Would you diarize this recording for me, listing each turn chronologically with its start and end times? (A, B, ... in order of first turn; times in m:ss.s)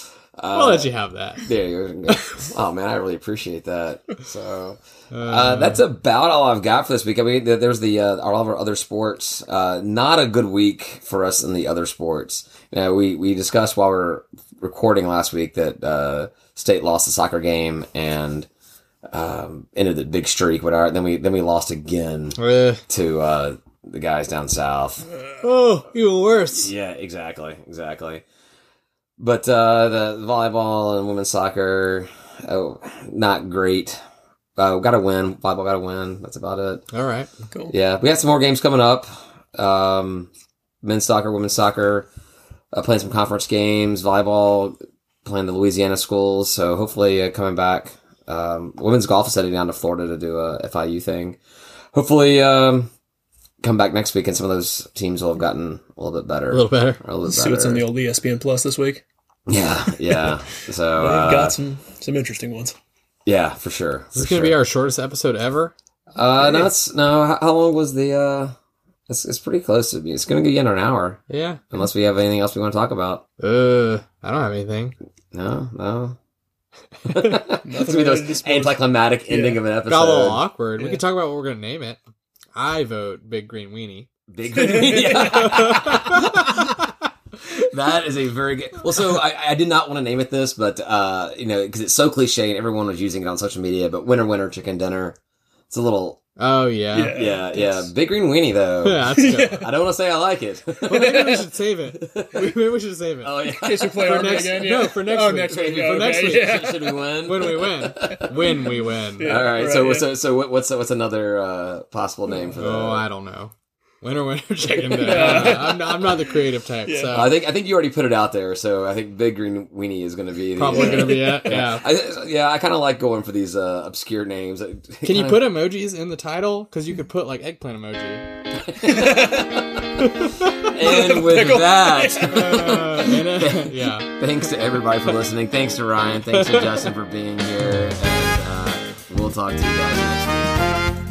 0:00.4-0:18.5 A
0:00.5-0:01.5 B
0:02.1-0:02.5 B
0:05.1-0:05.8 B
0:19.1-0:22.4 A
0:22.4-0:22.8 B
0:22.9-0:25.1 A
0:25.4-0:26.7 B
0:26.5-0:28.2 A
0:29.2-0:34.0 A
0:34.6-0:36.8 A
0:36.9-0:37.3 B
0:37.7-0:40.3 A
0:40.8-0:42.1 A
0:42.7-0:51.4 A
0:51.9-0:52.9 A
0:53.6-0:57.8 A
0:56.5-0:57.0 B
0:57.2-0:59.0 C
0:59.5-1:01.6 A
1:01.0-1:02.7 C
1:03.2-1:04.6 A
1:04.1-1:05.7 B
1:06.1-1:08.5 A
1:06.4-1:06.7 C
1:09.1-1:11.2 A
1:11.3-1:11.6 B
1:11.7-1:13.2 A
1:13.4-1:14.9 B
1:15.3-1:16.2 A
1:17.0-1:17.4 B
1:17.0-1:20.4 A
1:17.6-1:19.6 C
1:19.9-1:22.0 B
1:22.6-1:24.1 B
1:24.3-1:26.9 A
1:24.6-1:25.5 C
1:25.2-1:26.9 B
1:27.5-1:35.2 A
1:35.7-1:36.2 A
1:36.4-1:37.1 B
1:36.9-1:37.8 C
1:37.1-1:41.2 A
1:38.8-1:39.6 B
1:39.1-1:39.7 C
1:40.8-1:41.4 C
1:40.8-1:43.4 B
1:41.9-1:42.6 A
1:43.2-1:44.7 A
1:43.4-1:47.0 C
1:44.0-1:49.4 B
1:45.4-1:48.6 A
1:49.2-1:50.1 C
1:49.2-1:53.0 A
1:52.6-1:57.4 B
1:54.8-1:55.7 A
1:55.0-1:57.3 C
1:57.1-2:05.6 A
2:00.6-2:01.8 B
2:00.7-2:01.3 C
2:05.0-2:08.2 B
2:08.7-2:09.8 A
2:08.8-2:09.6 C
2:10.0-2:10.7 B
2:10.4-2:20.8 A
2:10.8-2:12.6 C
2:12.2-2:14.2 B
2:16.3-2:16.8 B